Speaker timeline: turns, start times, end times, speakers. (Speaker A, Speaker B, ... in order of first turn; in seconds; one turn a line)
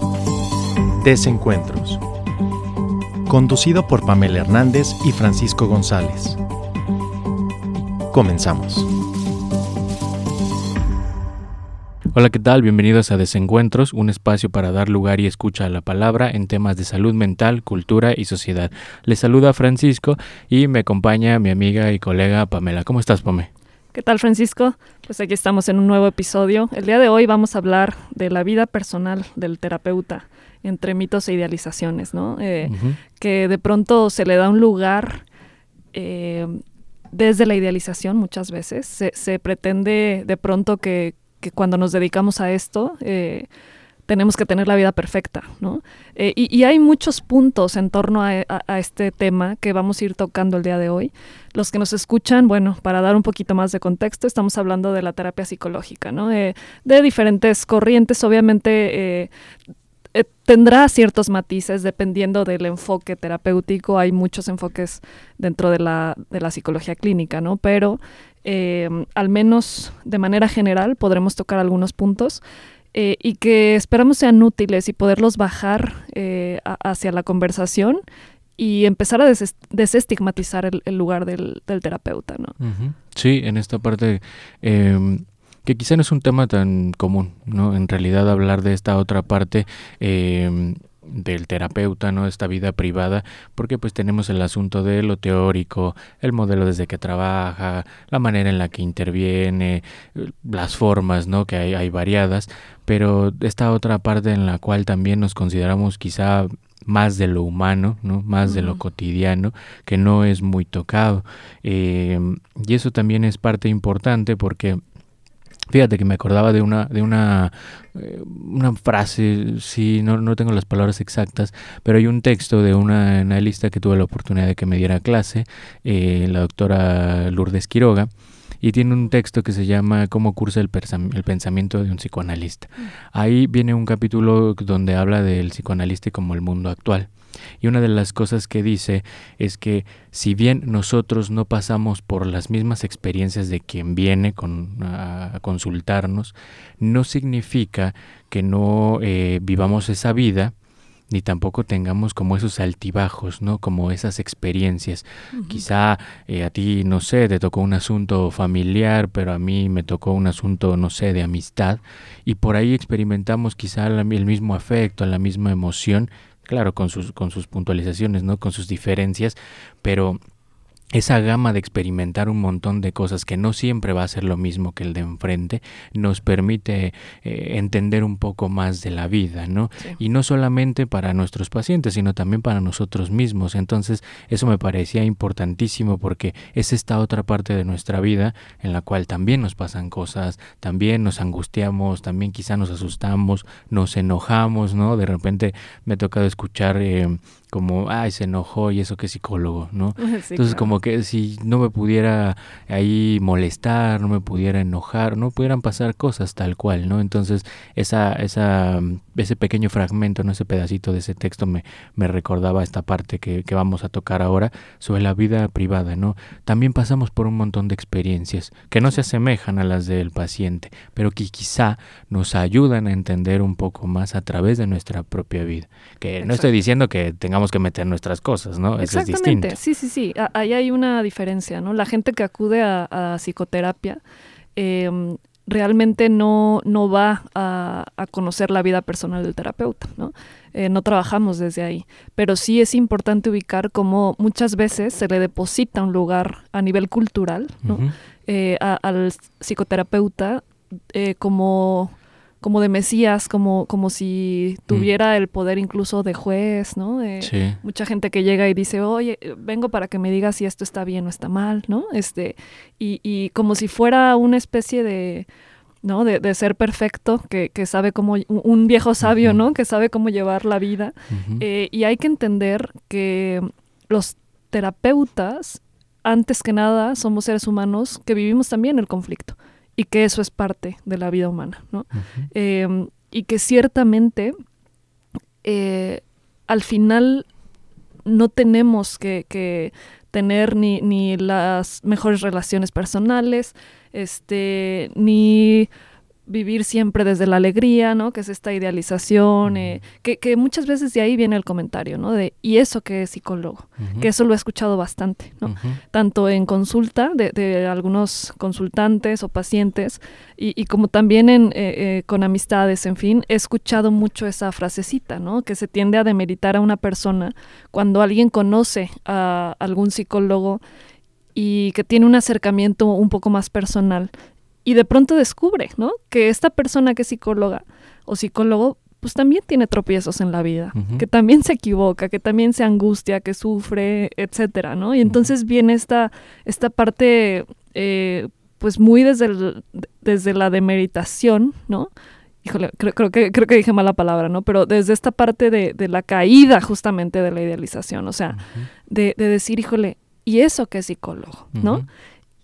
Speaker A: 1.0-2.0
Speaker A: 3.3-6.4
Speaker A: 8.1-8.9
Speaker B: 12.1-23.5
Speaker C: 23.9-35.2
Speaker B: 32.6-33.0
Speaker C: 35.9-43.5
Speaker C: 44.1-59.3
Speaker C: 60.1-72.4
Speaker C: 72.9-78.0
Speaker C: 78.6-82.5
Speaker B: 82.6-114.8
Speaker C: 108.4-108.8
Speaker B: 115.7-128.1
Speaker B: 128.6-150.5
Speaker B: 151.1-170.2
Speaker C: 155.3-155.6
Speaker B: 170.9-229.6
Speaker C: 200.0-200.7
Speaker C: 226.2-226.5
Speaker C: 228.8-234.0
Speaker C: 234.6-265.3
Speaker B: 247.6-247.9
Speaker B: 257.2-257.6
Speaker C: 265.8-284.3
Speaker B: 269.0-269.4
Speaker B: 271.1-271.4
Speaker B: 281.9-282.3
Speaker C: 285.4-287.3
Speaker C: 288.0-295.7
Speaker C: 296.3-320.6
Speaker B: 299.4-299.8
Speaker B: 303.8-304.1
Speaker B: 305.4-305.8
Speaker C: 321.3-324.1
Speaker C: 324.6-341.9
Speaker B: 330.7-331.0
Speaker C: 342.4-351.8
Speaker B: 348.3-348.7
Speaker B: 351.5-351.9